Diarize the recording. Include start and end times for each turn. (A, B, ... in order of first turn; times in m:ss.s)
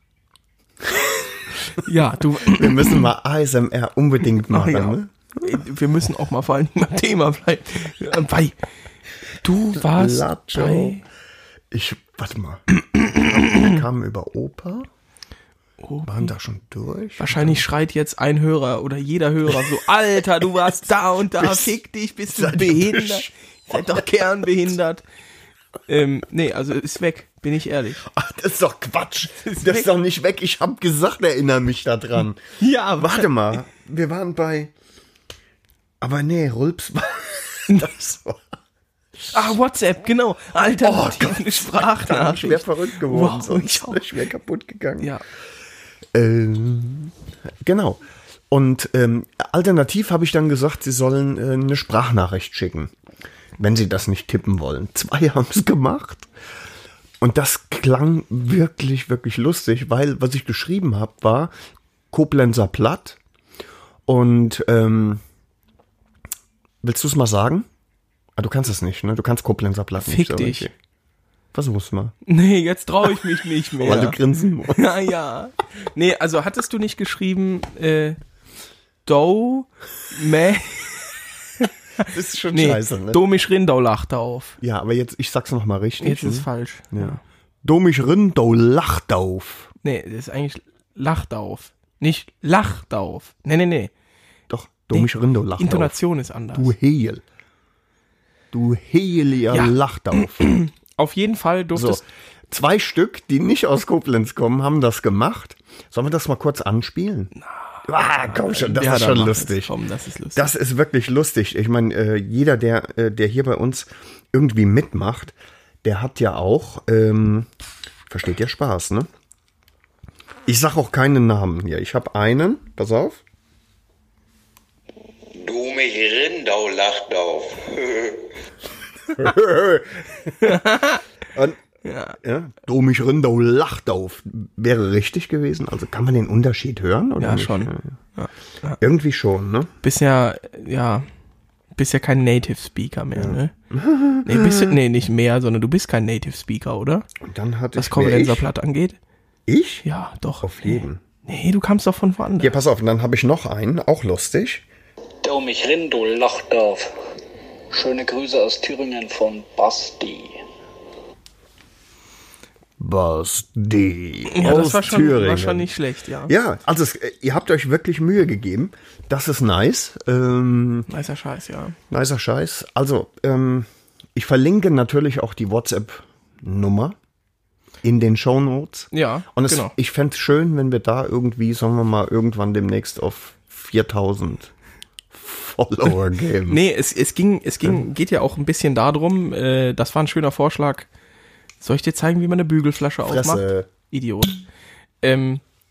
0:01.7-0:03.1 A
0:02.4-0:05.6 B
0:04.5-0:08.6 A
0:09.4-0:11.0 A
0:09.7-0:11.0 B
0:11.7-0:14.9 B
0:12.9-0:13.8 A
0:15.8-0:16.3 A
0:16.0-0:17.6 B
0:17.2-0:25.0 A
0:21.3-0:21.8 B
0:22.3-0:24.0 B
0:25.9-0:28.0 A
0:28.0-0:32.4 B
0:29.4-0:29.9 A
0:32.6-0:33.3 A
0:33.0-0:34.7 B
0:36.0-0:38.5 B
0:39.3-0:44.0 A
0:40.8-0:45.1 B
0:46.1-0:52.9 B
0:53.6-0:56.3 B
0:57.2-1:01.5 B
1:02.1-1:03.2 B
1:04.1-1:05.2 B
1:06.8-1:07.7 B
1:08.4-1:10.7 B
1:10.0-1:10.7 A
1:11.5-1:12.1 B
1:12.2-1:14.2 A
1:13.8-1:14.8 B
1:14.7-1:18.2 A
1:19.0-1:24.6 A
1:22.0-1:23.2 B
1:24.6-1:29.7 B
1:26.0-1:27.2 A
1:29.8-1:33.9 A
1:34.5-1:36.0 B
1:34.9-1:36.7 A
1:36.5-1:37.2 B
1:38.5-1:40.5 B
1:39.5-1:39.8 A
1:40.4-1:42.0 A
1:41.7-1:47.3 B
1:47.8-1:49.7 B
1:48.2-1:50.5 A
1:50.3-1:57.5 B
1:58.1-1:59.1 B
2:00.4-2:03.2 B
2:05.3-2:08.3 C
2:09.1-2:10.7 B
2:10.4-2:11.0 A
2:11.3-2:11.6 B
2:11.8-2:12.2 A
2:12.2-2:17.9 B
2:17.2-2:18.8 A
2:18.8-2:19.7 B
2:19.8-2:21.0 A
2:21.8-2:23.5 A
2:23.1-2:24.8 B
2:24.2-2:27.1 A
2:27.2-2:28.5 B
2:27.7-2:29.0 A
2:29.5-2:29.8 B
2:29.8-2:32.6 A
2:30.4-2:31.0 B
2:32.4-2:34.6 B
2:35.2-2:36.9 C
2:37.7-2:40.4 C
2:42.8-2:45.7 B
2:44.3-2:46.3 A
2:46.3-2:50.9 B
2:50.9-2:51.8 A
2:51.9-2:57.0 B
2:57.8-3:04.5 B
2:58.9-2:59.7 A
3:05.1-3:06.6 B
3:06.5-3:10.9 A
3:11.6-3:14.4 A
3:13.0-3:13.7 B
3:15.0-3:15.4 A